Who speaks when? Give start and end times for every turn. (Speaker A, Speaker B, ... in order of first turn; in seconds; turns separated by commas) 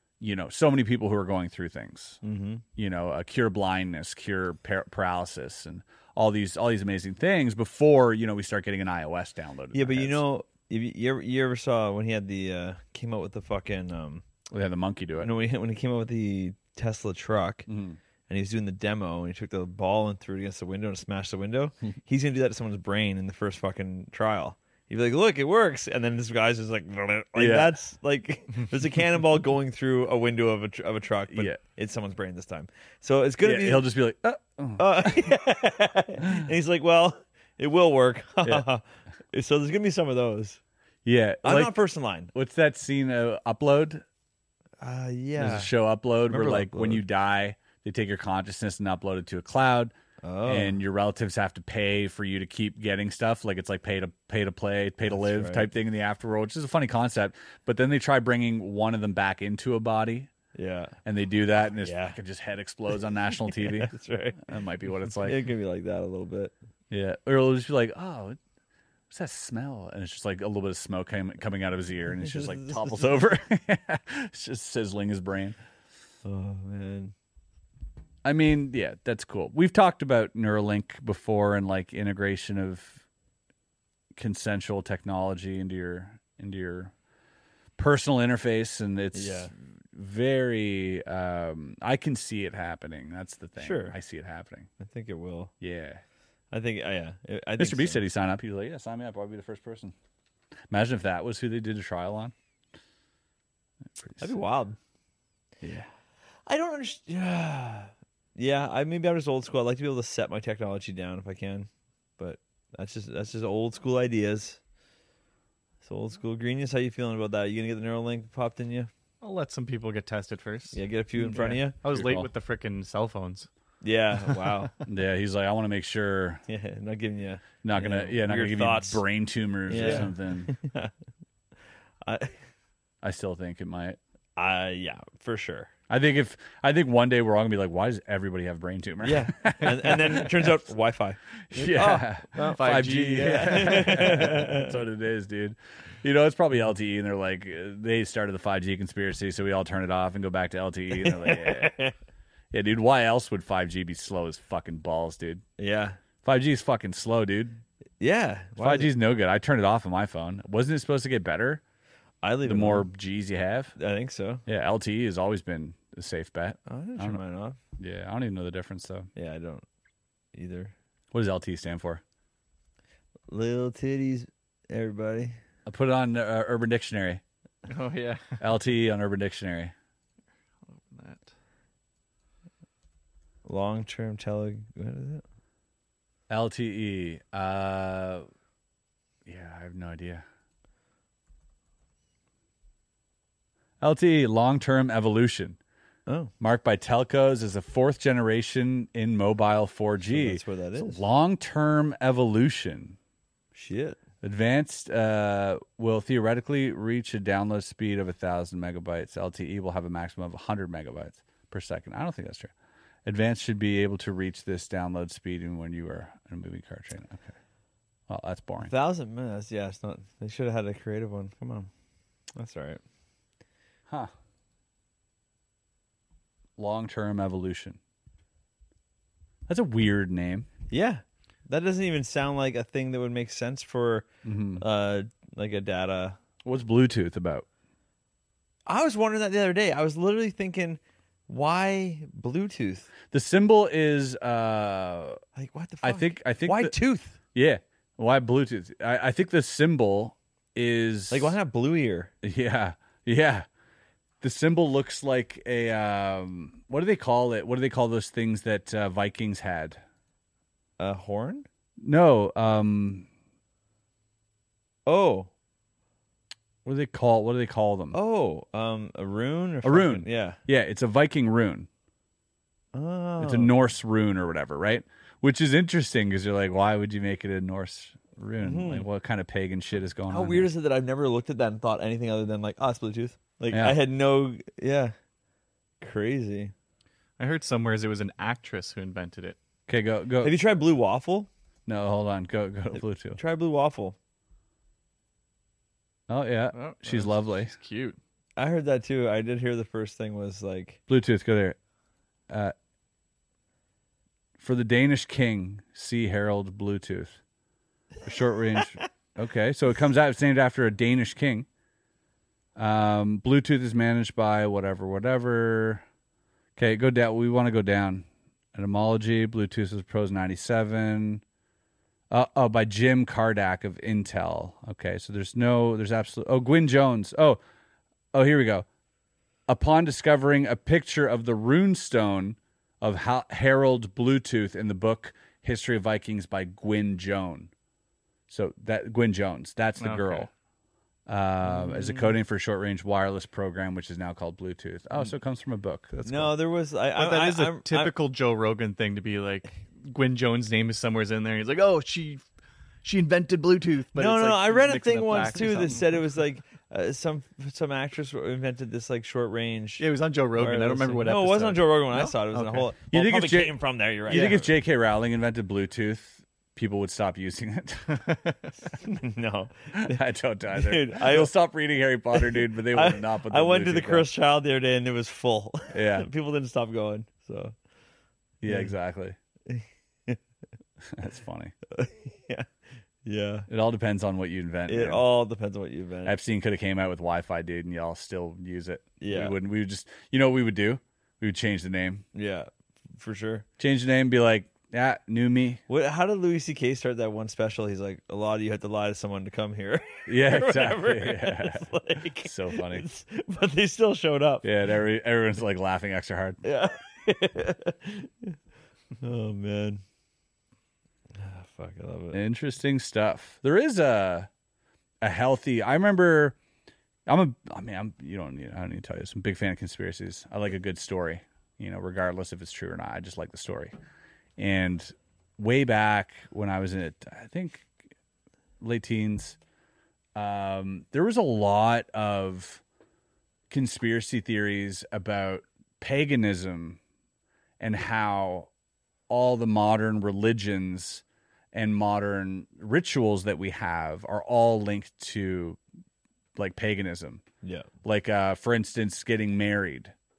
Speaker A: 0.2-2.2, Speaker B: 2.2-2.6, Speaker A: 2.8-10.2, Speaker B: 9.7-14.2, Speaker A: 14.5-15.3, Speaker B: 15.2-17.7, Speaker A: 17.7-18.0, Speaker B: 18.3-33.9, Speaker A: 27.4-27.8, Speaker A: 31.3-31.6, Speaker A: 33.4-35.4, Speaker B: 34.8-40.6, Speaker A: 36.2-36.5, Speaker A: 41.0-41.8, Speaker B: 41.4-42.3, Speaker A: 42.3-44.0, Speaker B: 44.8-45.7, Speaker A: 45.4-49.9, Speaker B: 46.3-47.0, Speaker B: 50.2-50.8, Speaker A: 50.5-60.3, Speaker B: 55.1-55.7, Speaker B: 60.5-61.0, Speaker A: 61.0-65.5, Speaker B: 61.8-62.2, Speaker B: 63.5-64.4, Speaker B: 65.1-66.5, Speaker A: 66.9-68.4, Speaker A: 69.1-75.6, Speaker B: 72.2-73.2, Speaker B: 76.2-77.1, Speaker A: 78.2-83.0, Speaker A: 84.2-86.9, Speaker A: 87.8-94.7, Speaker B: 89.1-89.5, Speaker B: 93.6-94.0, Speaker B: 94.8-95.5, Speaker A: 95.6-96.0, Speaker B: 96.5-98.0, Speaker A: 97.6-99.9, Speaker A: 100.7-102.3, Speaker A: 104.0-104.4, Speaker B: 104.2-104.8, Speaker A: 105.6-105.9, Speaker B: 106.5-114.6, Speaker B: 115.8-118.9, Speaker C: 119.2-123.5, Speaker B: 120.7-121.8, Speaker A: 121.8-122.3, Speaker B: 123.8-124.7, Speaker A: 124.8-126.4, Speaker B: 126.5-129.0, Speaker A: 127.6-130.5, Speaker B: 129.7-130.9, Speaker C: 129.8-130.1, Speaker B: 132.0-132.4, Speaker A: 133.0-134.0, Speaker B: 134.4-135.7, Speaker A: 135.9-140.7, Speaker B: 139.0-144.7, Speaker A: 141.5-151.8, Speaker C: 142.4-144.3, Speaker B: 150.9-151.9, Speaker A: 152.5-155.4, Speaker B: 155.6-156.0, Speaker A: 156.2-157.6, Speaker B: 158.0-158.9, Speaker A: 158.6-161.6, Speaker B: 162.2-162.9, Speaker A: 162.4-163.7, Speaker B: 163.8-164.4, Speaker A: 164.5-167.2, Speaker B: 166.7-167.6, Speaker A: 167.8-169.1, Speaker B: 169.2-169.7, Speaker B: 170.3-170.7, Speaker A: 171.1-172.0, Speaker B: 173.3-175.4, Speaker A: 175.7-177.2, Speaker C: 177.7-178.4, Speaker A: 178.4-179.7, Speaker C: 180.7-181.3, Speaker B: 183.4-185.2, Speaker A: 186.3-188.3, Speaker A: 189.3-190.2, Speaker A: 193.8-195.6, Speaker B: 196.1-196.3, Speaker A: 196.4-203.0, Speaker B: 200.1-201.0, Speaker B: 203.5-204.0, Speaker A: 204.2-212.5, Speaker A: 213.1-217.3, Speaker A: 218.1-218.7, Speaker B: 218.6-221.7, Speaker B: 222.4-222.8, Speaker A: 226.6-227.8, Speaker A: 229.5-230.5, Speaker B: 230.7-236.2, Speaker A: 234.2-234.7, Speaker A: 236.4-237.5, Speaker B: 238.7-242.9, Speaker A: 243.1-245.2, Speaker B: 245.3-247.2, Speaker A: 245.8-246.8, Speaker A: 247.3-251.4, Speaker B: 251.1-252.1, Speaker A: 252.2-253.5, Speaker A: 254.2-259.8, Speaker B: 260.8-261.5, Speaker A: 261.8-263.1, Speaker B: 264.9-265.3, Speaker A: 266.6-268.0, Speaker B: 267.9-270.4, Speaker A: 269.6-271.7, Speaker B: 272.7-273.5, Speaker A: 273.2-280.5, Speaker B: 278.4-278.9, Speaker B: 280.1-284.9, Speaker A: 283.5-283.8, Speaker B: 285.8-286.5, Speaker C: 287.2-289.4, Speaker A: 289.7-290.4, Speaker B: 290.2-291.3, Speaker A: 291.7-293.2, Speaker B: 292.8-294.0, Speaker A: 296.1-297.5, Speaker C: 296.5-298.0, Speaker B: 298.4-300.8, Speaker A: 300.9-301.6, Speaker A: 304.4-307.2, Speaker A: 308.0-311.5, Speaker A: 312.6-315.9, Speaker A: 316.6-321.2, Speaker A: 322.1-327.4, Speaker A: 328.1-328.7, Speaker A: 329.5-337.5, Speaker A: 338.3-340.3, Speaker C: 339.8-340.3, Speaker A: 341.1-346.4, Speaker B: 341.4-342.2, Speaker B: 346.1-347.9, Speaker C: 346.9-352.2, Speaker C: 352.8-356.0, Speaker B: 353.9-364.5, Speaker C: 359.8-362.7, Speaker A: 362.9-368.1, Speaker C: 367.9-368.3, Speaker B: 368.7-370.0, Speaker A: 369.7-374.1, Speaker B: 370.5-371.3, Speaker B: 372.1-377.6, Speaker A: 375.7-376.1, Speaker A: 378.4-379.2, Speaker B: 378.4-378.7, Speaker B: 379.5-380.2, Speaker A: 380.9-381.5, Speaker B: 381.7-382.5, Speaker B: 383.0-383.5, Speaker A: 383.5-385.0, Speaker B: 384.7-386.2, Speaker A: 386.1-392.1, Speaker B: 389.0-389.4, Speaker B: 392.1-393.5, Speaker A: 393.6-395.6, Speaker B: 395.7-404.5, Speaker A: 400.1-402.9, Speaker A: 404.4-406.4, Speaker B: 406.4-408.4, Speaker B: 409.0-409.8, Speaker B: 411.1-412.2, Speaker A: 412.1-414.3, Speaker A: 415.0-416.4, Speaker A: 417.1-423.7, Speaker A: 424.4-427.7, Speaker A: 428.6-429.4, Speaker A: 430.1-432.6, Speaker A: 433.5-436.8, Speaker A: 437.6-438.5, Speaker A: 439.1-445.6, Speaker A: 446.4-447.2, Speaker B: 447.4-447.7, Speaker A: 447.8-449.9